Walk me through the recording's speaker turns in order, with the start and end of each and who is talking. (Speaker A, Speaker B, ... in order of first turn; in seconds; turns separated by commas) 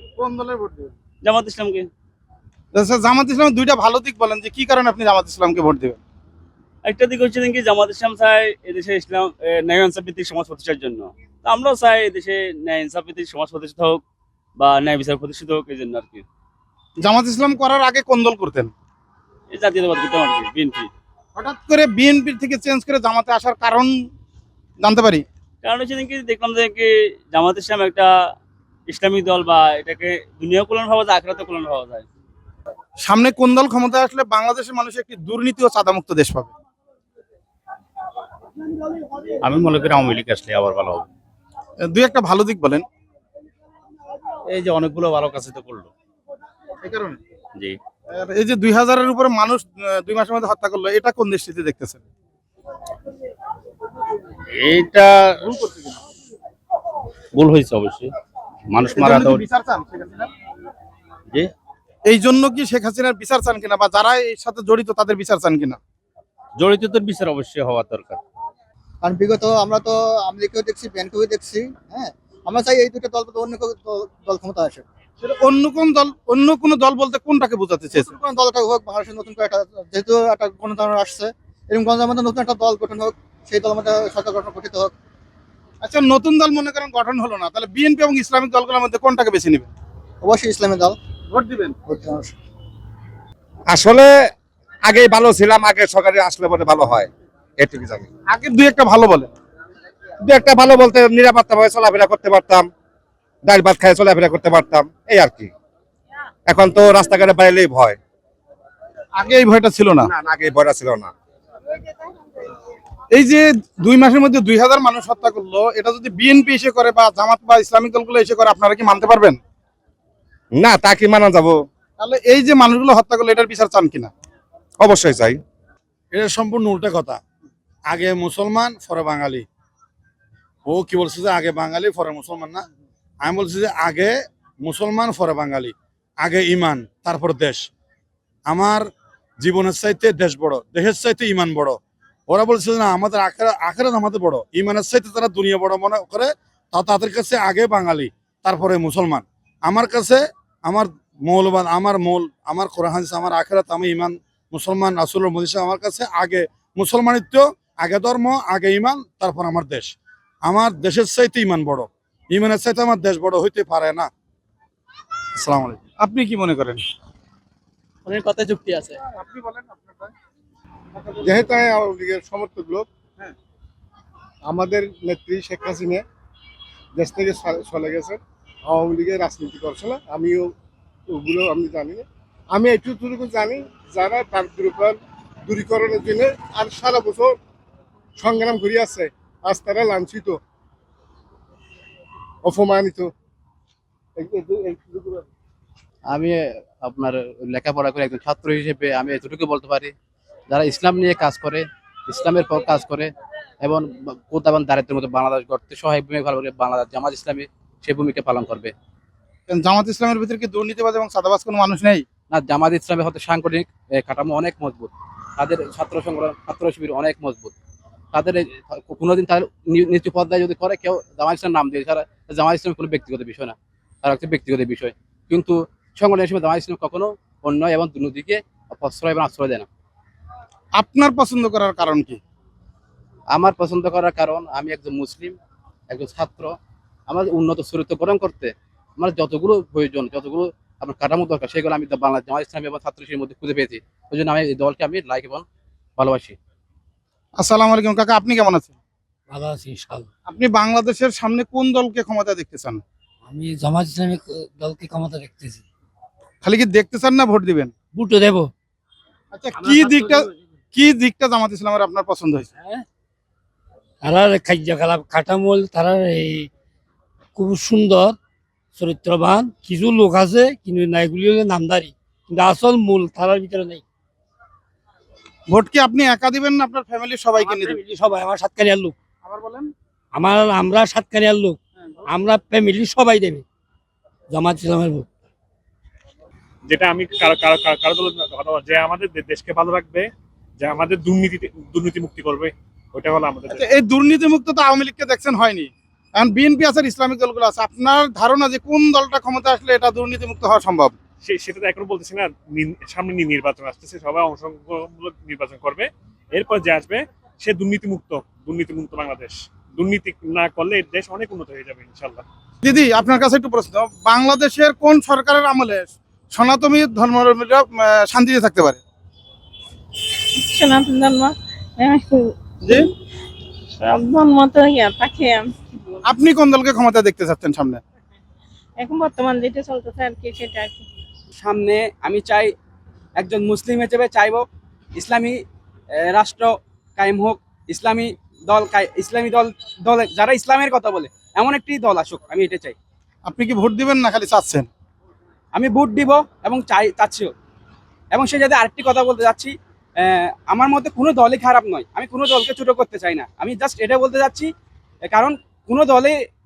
Speaker A: 0.2-0.9, Speaker B: 1.2-1.9, Speaker A: 2.7-6.0, Speaker B: 6.8-14.0, Speaker B: 14.6-16.2, Speaker A: 17.0-18.7, Speaker B: 19.5-20.9, Speaker A: 21.4-23.9, Speaker A: 24.8-25.2, Speaker B: 25.6-28.1, Speaker B: 28.9-32.0, Speaker A: 33.0-36.5, Speaker C: 39.4-41.0, Speaker A: 41.8-42.8, Speaker C: 44.5-45.9, Speaker A: 46.8-47.2, Speaker A: 48.1-52.0, Speaker C: 54.6-55.4, Speaker C: 57.3-58.1, Speaker C: 58.7-59.4, Speaker A: 58.9-60.3, Speaker A: 62.0-65.8, Speaker C: 66.6-68.2, Speaker D: 69.0-74.8, Speaker A: 75.2-78.1, Speaker D: 78.0-84.9, Speaker A: 85.8-89.7, Speaker D: 90.2-90.9, Speaker A: 91.3-91.8, Speaker D: 91.8-92.3, Speaker E: 93.8-94.1, Speaker E: 94.9-97.0, Speaker A: 98.3-99.3, Speaker E: 100.3-102.7, Speaker E: 103.5-105.5, Speaker E: 106.5-107.9, Speaker A: 109.2-110.1, Speaker E: 110.5-111.1, Speaker A: 113.1-119.4, Speaker E: 120.6-121.2, Speaker A: 122.0-124.1, Speaker E: 124.8-125.2, Speaker F: 126.1-127.2, Speaker F: 127.9-129.4, Speaker F: 130.7-132.6, Speaker F: 133.2-137.7, Speaker F: 138.4-138.8, Speaker F: 139.4-159.9, Speaker F: 160.4-164.1, Speaker A: 165.4-166.8, Speaker A: 169.1-170.1, Speaker G: 171.2-172.9, Speaker G: 174.4-176.0, Speaker G: 176.9-180.5, Speaker G: 181.1-187.4, Speaker G: 188.2-190.4, Speaker G: 192.4-193.1, Speaker G: 194.2-195.2, Speaker H: 196.1-199.9, Speaker H: 200.5-203.1, Speaker H: 203.6-208.7, Speaker A: 209.5-212.0, Speaker H: 212.3-217.5, Speaker H: 218.1-229.7, Speaker A: 230.8-232.2, Speaker H: 233.3-235.4, Speaker H: 235.9-236.5, Speaker H: 237.1-245.4, Speaker H: 246.0-246.3, Speaker A: 247.4-248.8, Speaker I: 249.3-250.1, Speaker A: 250.3-252.8, Speaker I: 253.3-255.6, Speaker A: 256.4-257.7, Speaker I: 257.9-258.5, Speaker A: 259.3-262.5, Speaker I: 264.0-266.4, Speaker I: 267.4-268.1, Speaker I: 268.8-273.8, Speaker A: 275.5-277.8, Speaker I: 277.4-278.9, Speaker A: 279.2-279.7, Speaker I: 280.1-281.6, Speaker I: 282.1-283.4, Speaker I: 284.3-285.1, Speaker J: 286.7-293.7, Speaker A: 293.5-300.9, Speaker J: 301.2-312.2, Speaker A: 312.6-318.8, Speaker K: 320.4-322.3, Speaker A: 322.6-322.9, Speaker K: 323.8-326.0, Speaker A: 326.0-327.8, Speaker K: 328.8-330.8, Speaker L: 331.4-332.5, Speaker L: 333.2-334.4, Speaker L: 335.0-335.4, Speaker L: 336.0-342.8, Speaker A: 343.2-344.7, Speaker L: 345.5-347.3, Speaker L: 348.1-354.5, Speaker L: 355.1-356.1